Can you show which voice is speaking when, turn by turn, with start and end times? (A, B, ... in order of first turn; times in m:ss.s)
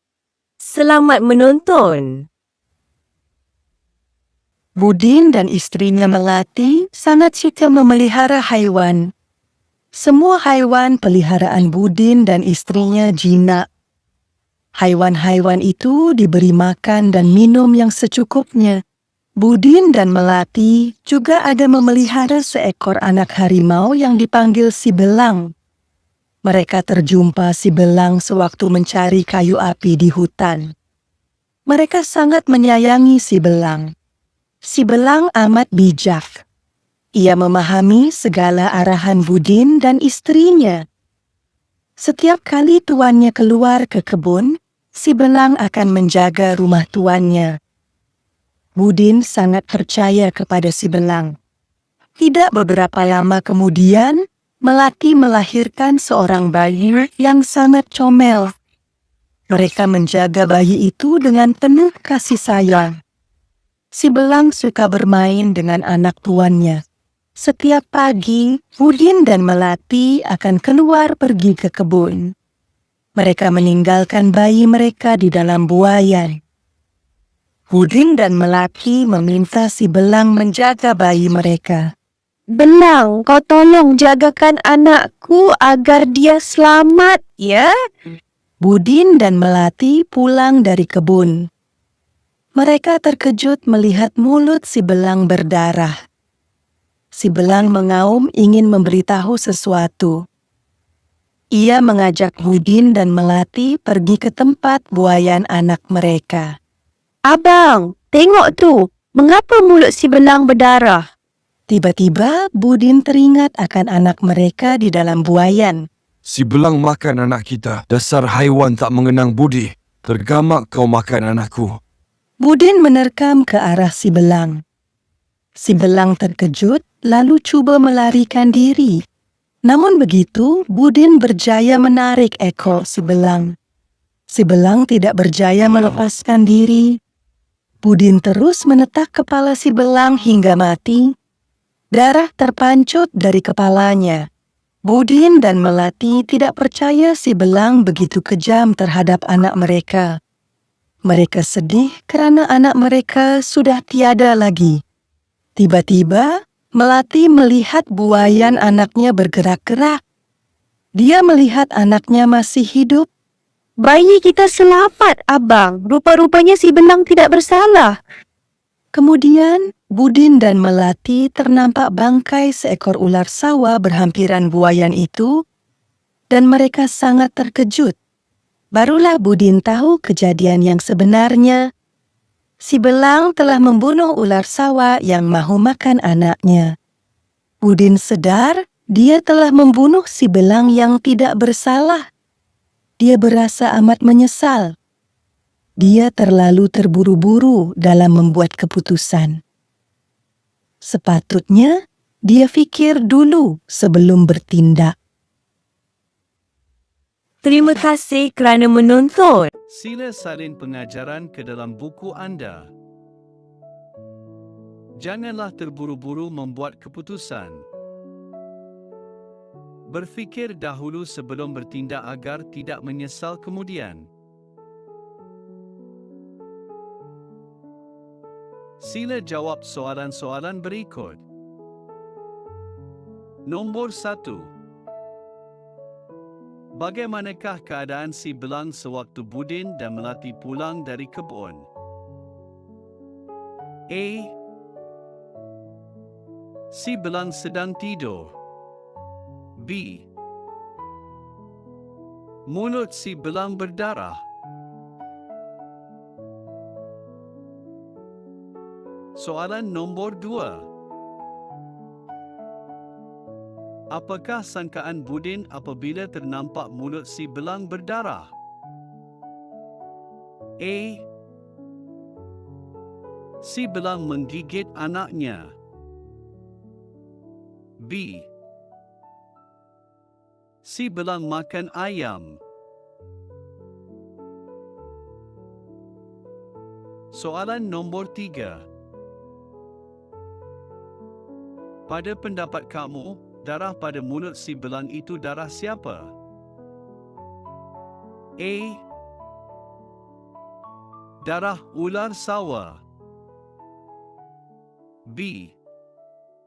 0:00.6-0:02.3 A
0:04.8-0:09.1 B
0:09.9-0:13.6 B
0:14.8-0:18.8 B
0:19.4-0:25.5 B
0:26.4-0:30.7 B
0:31.7-0:33.9 B
0:34.6-0:36.4 B
0:37.2-0:40.8 B
0:42.0-0:47.5 B
0:48.8-0:51.3 B
0:52.2-0:58.5 B
0:59.5-1:02.9 B
1:03.9-1:06.8 B
1:07.4-1:12.3 B
1:13.2-1:16.4 B
1:17.7-1:21.8 B
1:22.5-1:27.7 C
1:28.6-1:31.5 B
1:32.6-1:35.9 B
1:37.1-1:40.2 B
1:41.5-1:46.5 B
1:47.3-1:51.0 C
1:51.7-1:55.8 B
1:56.2-2:01.8 D
2:02.4-2:04.6 B
2:05.6-2:09.0 B
2:09.6-2:13.5 B
2:14.3-2:17.0 B
2:17.8-2:21.1 B
2:21.9-2:24.3 B
2:24.8-2:30.2 B
2:31.1-2:34.8 B
2:35.6-2:40.0 B
2:41.0-2:43.1 B
2:43.8-2:48.0 C
2:48.9-2:55.4 B
2:56.3-2:58.0 B
2:58.7-3:01.7 B
3:02.6-3:06.7 B
3:07.6-3:12.0 B
3:13.0-3:14.7 B
3:15.8-3:19.4 B
3:20.8-3:24.9 B
3:27.4-3:29.5 A
3:29.7-3:32.7 E
3:35.0-3:37.6 E
3:39.9-3:44.1 E
3:48.8-3:51.2 E
3:53.5-3:54.5 E
3:56.7-4:01.6 E
4:03.9-4:04.3 E
4:06.7-4:08.3 E
4:09.6-4:10.1 E
4:12.5-4:14.2 E
4:19.2-4:20.6 E
4:23.9-4:28.3 E
4:30.6-4:31.0 E
4:33.4-4:35.5 E
4:37.8-4:38.3 E
4:40.6-4:42.4 E
4:47.1-4:48.6 E
4:51.9-4:56.1 E
4:58.4-4:58.8 E
5:01.2-5:02.8 E
5:05.1-5:05.6 E